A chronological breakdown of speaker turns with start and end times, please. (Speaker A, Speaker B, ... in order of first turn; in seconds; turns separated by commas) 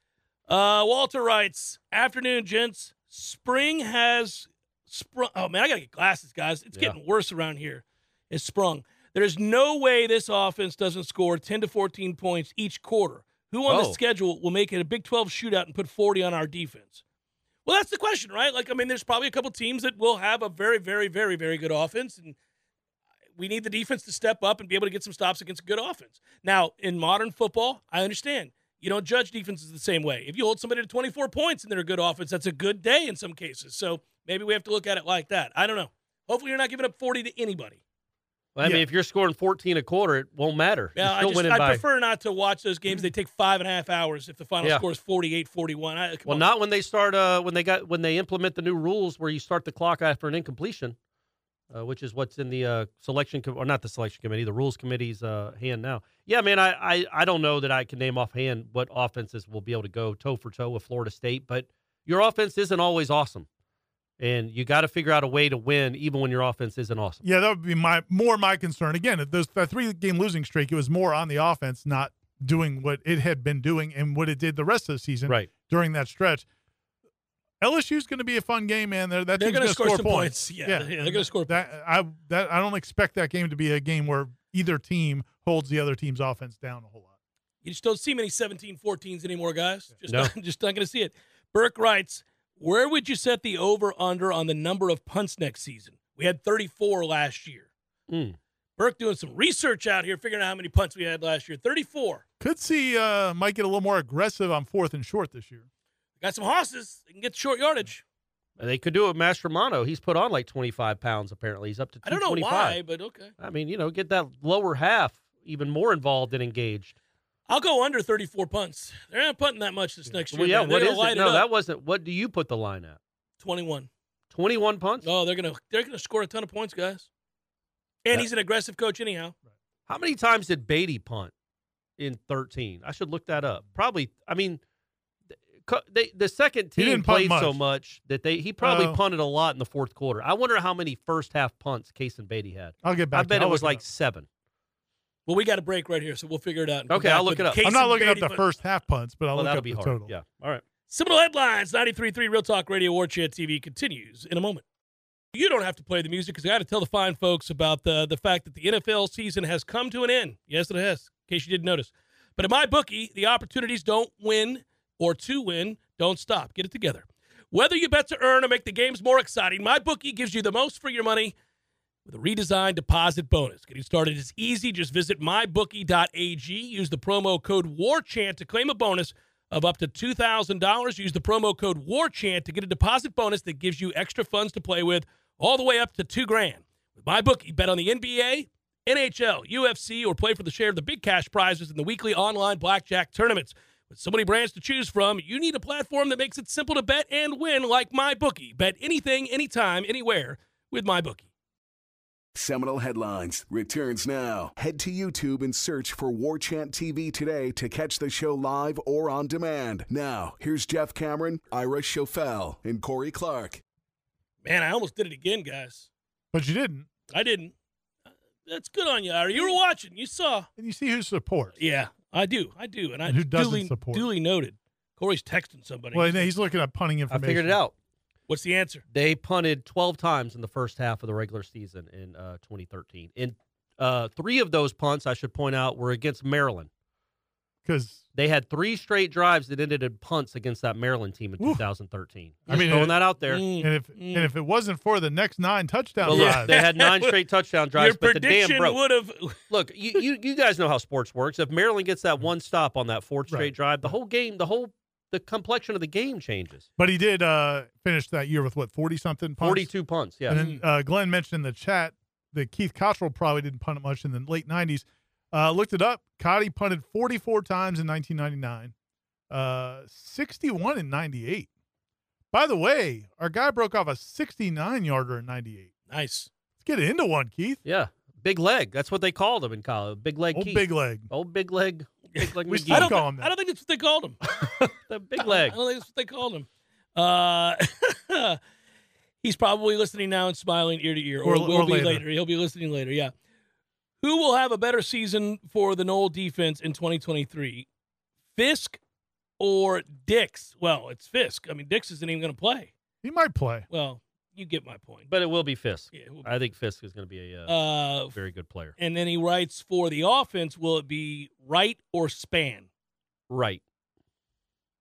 Speaker A: 0.5-17.0, Speaker B: 13.7-14.0, Speaker A: 17.6-22.4, Speaker A: 23.4-37.8, Speaker B: 38.5-41.8, Speaker A: 41.0-46.5, Speaker B: 46.3-51.0, Speaker B: 51.7-63.5, Speaker B: 64.2-67.2, Speaker C: 67.2-76.5, Speaker C: 77.6-87.1, Speaker A: 79.4-81.6, Speaker A: 87.6-97.7, Speaker B: 90.1-90.3, Speaker B: 98.1-98.4, Speaker A: 98.8-102.2, Speaker C: 102.4-105.7, Speaker A: 106.2-108.0, Speaker B: 108.6-112.8, Speaker A: 112.0-113.3, Speaker B: 113.4-117.0, Speaker A: 117.5-121.5, Speaker B: 120.3-123.0, Speaker A: 123.4-123.9, Speaker B: 124.3-125.1, Speaker A: 125.0-127.1, Speaker A: 128.0-129.3, Speaker B: 129.9-131.3, Speaker B: 132.0-134.6, Speaker B: 135.3-144.2, Speaker C: 136.8-137.6, Speaker C: 138.6-139.0, Speaker C: 142.8-143.8, Speaker A: 145.2-148.4, Speaker B: 146.9-147.7, Speaker C: 147.6-150.1, Speaker B: 149.3-150.6, Speaker A: 150.9-154.6, Speaker A: 155.3-171.3, Speaker A: 172.0-201.3, Speaker D: 202.3-213.6, Speaker A: 214.4-215.9, Speaker C: 216.3-216.9, Speaker A: 217.1-217.5, Speaker A: 218.4-220.5, Speaker C: 220.6-221.6, Speaker A: 221.6-226.3, Speaker C: 223.1-224.1, Speaker C: 225.9-227.6, Speaker B: 227.1-227.7, Speaker A: 228.3-228.8, Speaker B: 228.9-236.7, Speaker C: 237.6-238.0, Speaker B: 238.1-243.4, Speaker C: 242.5-246.6, Speaker A: 242.5-244.3, Speaker B: 246.0-248.8, Speaker A: 246.1-247.2, Speaker A: 247.7-249.4, Speaker B: 249.5-256.7, Speaker C: 253.3-253.9, Speaker C: 256.8-259.7, Speaker B: 259.4-260.4, Speaker C: 260.3-268.7, Speaker A: 260.3-260.6, Speaker C: 269.3-271.5, Speaker C: 272.3-275.7, Speaker A: 275.9-276.3, Speaker C: 276.6-277.6, Speaker B: 277.6-283.0, Speaker C: 280.3-281.1, Speaker A: 282.2-284.2, Speaker C: 282.5-283.3, Speaker B: 284.3-285.6, Speaker A: 285.2-288.4, Speaker A: 289.2-293.1, Speaker C: 291.2-292.0, Speaker A: 294.0-297.6, Speaker A: 298.3-298.8, Speaker A: 299.4-302.7, Speaker C: 303.0-303.7, Speaker A: 303.7-305.1, Speaker B: 305.1-308.7, Speaker A: 305.9-306.3, Speaker A: 307.4-308.2, Speaker A: 308.8-312.7, Speaker B: 313.3-313.6